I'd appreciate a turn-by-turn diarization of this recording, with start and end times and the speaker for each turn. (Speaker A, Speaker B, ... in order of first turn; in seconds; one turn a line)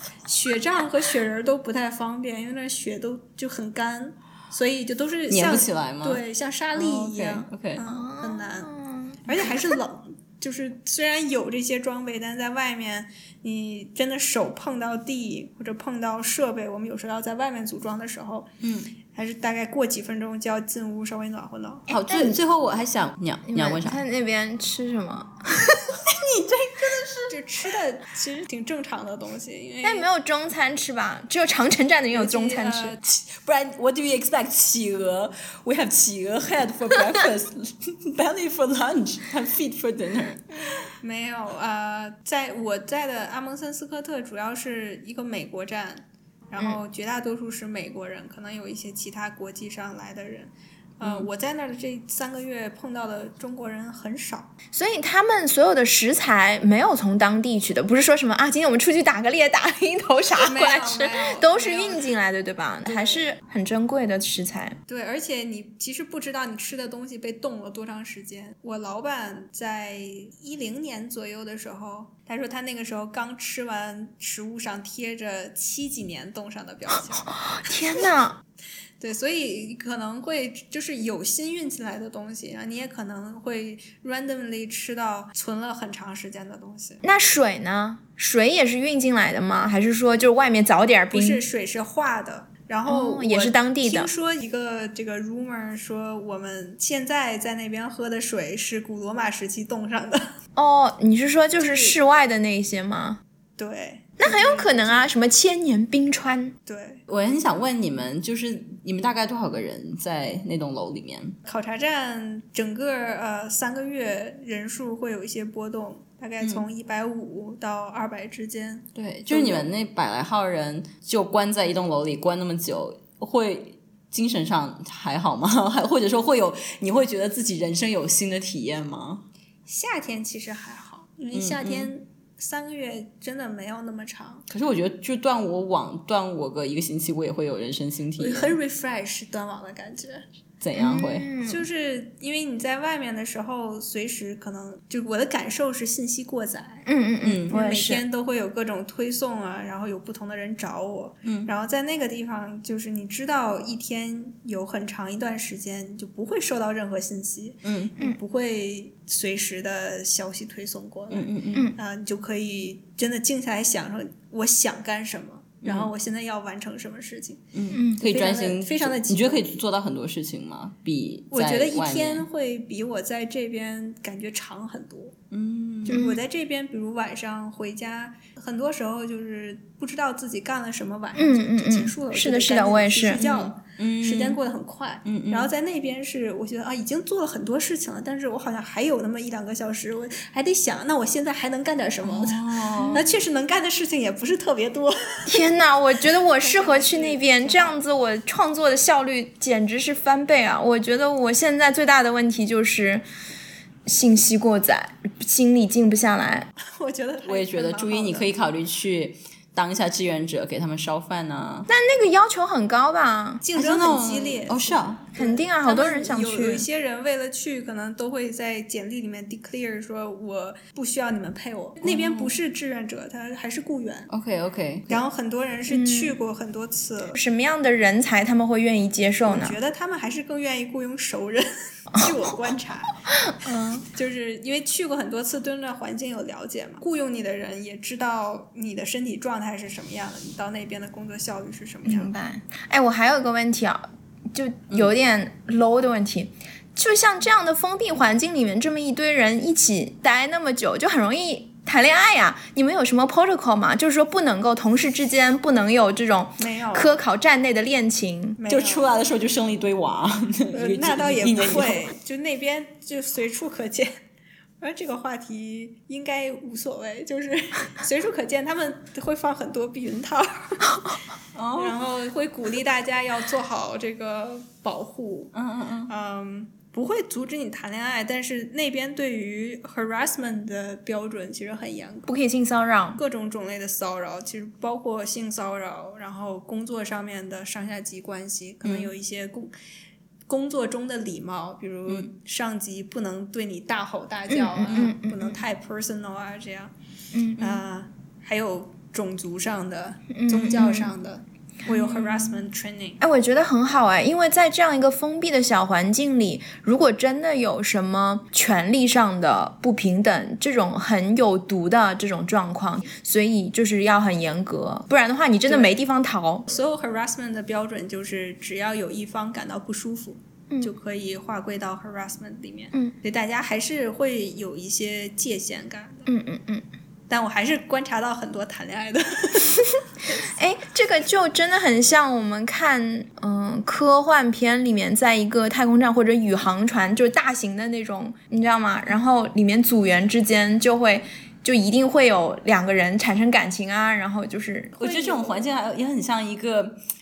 Speaker A: 0.3-8.7
Speaker B: 5.3-6.2
Speaker B: 6.8-7.8
Speaker C: 7.9-9.5
Speaker A: 9.2-18.5
Speaker B: 18.6-18.9
Speaker A: 19.1-21.9
Speaker C: 21.9-22.4
Speaker B: 21.9-24.0
Speaker C: 23.5-25.9
Speaker B: 25.9-27.4
Speaker A: 27.3-30.1
Speaker C: 29.8-33.0
Speaker A: 32.1-33.0
Speaker B: 33.0-40.5
Speaker A: 41.0-54.5
Speaker C: 54.7-64.8
Speaker A: 60.3-62.1
Speaker A: 62.9-63.3
Speaker A: 64.9-77.4
Speaker C: 77.4-78.4
Speaker A: 79.0-87.0
Speaker C: 87.0-91.4
Speaker A: 91.1-100.3
Speaker C: 92.9-94.1
Speaker C: 100.6-103.2
Speaker A: 101.6-102.0
Speaker A: 103.6-105.1
Speaker C: 104.2-106.6
Speaker A: 106.7-107.0
Speaker B: 107.1-111.4
Speaker A: 111.5-119.7
Speaker B: 119.0-129.3
Speaker A: 129.7-134.4
Speaker B: 131.3-131.9
Speaker B: 134.5-138.6
Speaker A: 138.2-140.2
Speaker B: 140.6-141.3
Speaker C: 140.8-141.6
Speaker A: 141.4-146.9
Speaker C: 146.9-148.0
Speaker B: 147.2-147.5
Speaker A: 147.5-169.5
Speaker B: 151.2-151.5
Speaker B: 157.6-157.9
Speaker B: 161.1-161.7
Speaker B: 165.6-165.9
Speaker B: 167.6-172.2
Speaker C: 167.7-168.0
Speaker A: 171.3-175.2
Speaker B: 175.3-176.0
Speaker A: 175.9-195.4
Speaker C: 175.9-176.2
Speaker C: 181.2-183.2
Speaker B: 183.2-184.4
Speaker B: 185.1-185.5
Speaker B: 192.0-193.1
Speaker C: 192.8-193.1
Speaker C: 195.3-203.0
Speaker A: 196.3-197.8
Speaker C: 203.9-206.5
Speaker A: 206.6-208.3
Speaker B: 207.2-211.7
Speaker C: 211.7-213.4
Speaker A: 213.4-224.1
Speaker B: 213.6-215.1
Speaker C: 215.2-216.7
Speaker B: 221.8-222.3
Speaker B: 224.1-225.0
Speaker A: 224.9-227.2
Speaker C: 225.7-226.2
Speaker C: 227.2-229.6
Speaker A: 229.3-232.9
Speaker C: 233.4-233.8
Speaker A: 233.8-242.1
Speaker C: 241.9-258.4
Speaker A: 256.4-257.0
Speaker A: 258.4-259.0
Speaker B: 258.5-261.9
Speaker A: 260.5-263.9
Speaker A: 264.6-271.0
Speaker B: 271.4-271.8
Speaker A: 271.6-275.3
Speaker B: 275.3-275.9
Speaker A: 275.9-282.1
Speaker C: 282.1-283.0
Speaker A: 283.0-289.5
Speaker B: 288.6-288.9
Speaker A: 290.3-296.7
Speaker C: 294.3-295.4
Speaker C: 297.1-297.6
Speaker A: 297.4-303.0
Speaker C: 300.1-300.9
Speaker C: 301.7-302.3
Speaker C: 303.0-316.5
Speaker A: 315.5-315.7
Speaker A: 316.5-326.1
Speaker C: 326.1-326.7
Speaker A: 327.1-329.7
Speaker C: 330.2-345.0
Speaker B: 344.8-346.8
Speaker A: 344.8-345.4